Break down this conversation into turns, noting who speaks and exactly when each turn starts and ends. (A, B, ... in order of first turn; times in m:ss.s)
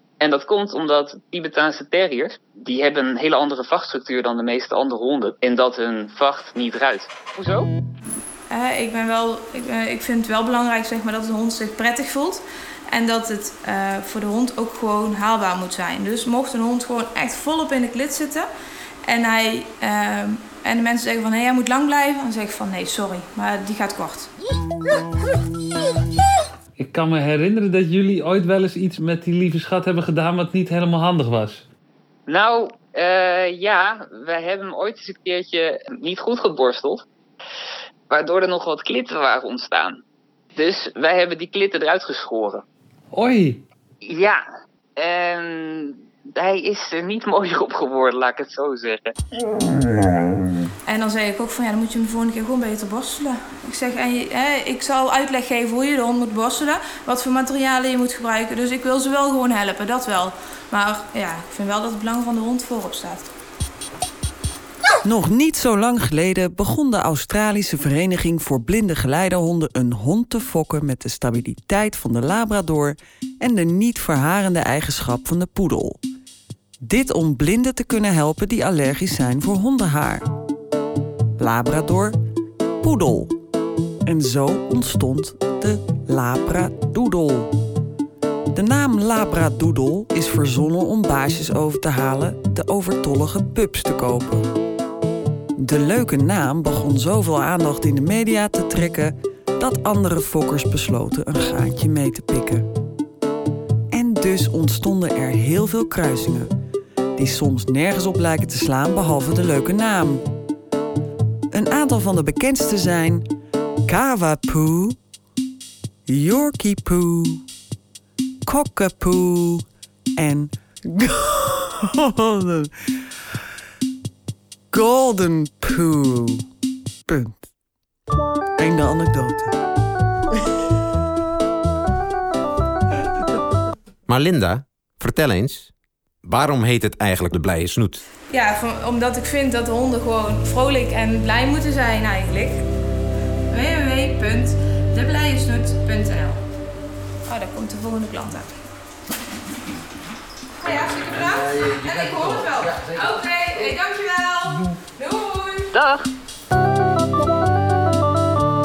0:00.2-0:07.7 A
0:08.5-0:18.5 B
0:19.0-0:24.3 B
0:26.8-0:31.6 C
0:32.3-0:37.0 A
0:38.1-0:40.0 A
0:40.6-0:42.6 A
0:43.1-0:43.6 C
0:44.0-0:44.4 A
0:45.0-0:49.0 A
0:50.8-1:03.3 B
1:05.0-1:16.0 D
1:16.8-1:20.3 D
1:21.4-1:22.2 D
1:22.8-1:23.3 D
1:24.0-1:27.5 D
1:28.5-1:34.5 D
1:35.6-1:42.7 D
1:43.9-1:46.5 D
1:47.2-1:50.2 D
1:51.5-1:53.2 D
1:53.8-1:55.0 D
1:56.1-1:57.4 D
1:58.5-1:59.6 D
2:00.2-2:02.7 D
2:04.7-2:06.4 D
2:07.1-2:07.5 D
2:08.6-2:09.5 D
2:14.1-2:15.7 E
2:16.2-2:18.0 E
2:18.3-2:22.6 B
2:23.5-2:26.4 B
2:27.2-2:28.5 B
2:30.6-2:35.7 B
2:31.1-2:33.2 E
2:35.7-2:36.1 A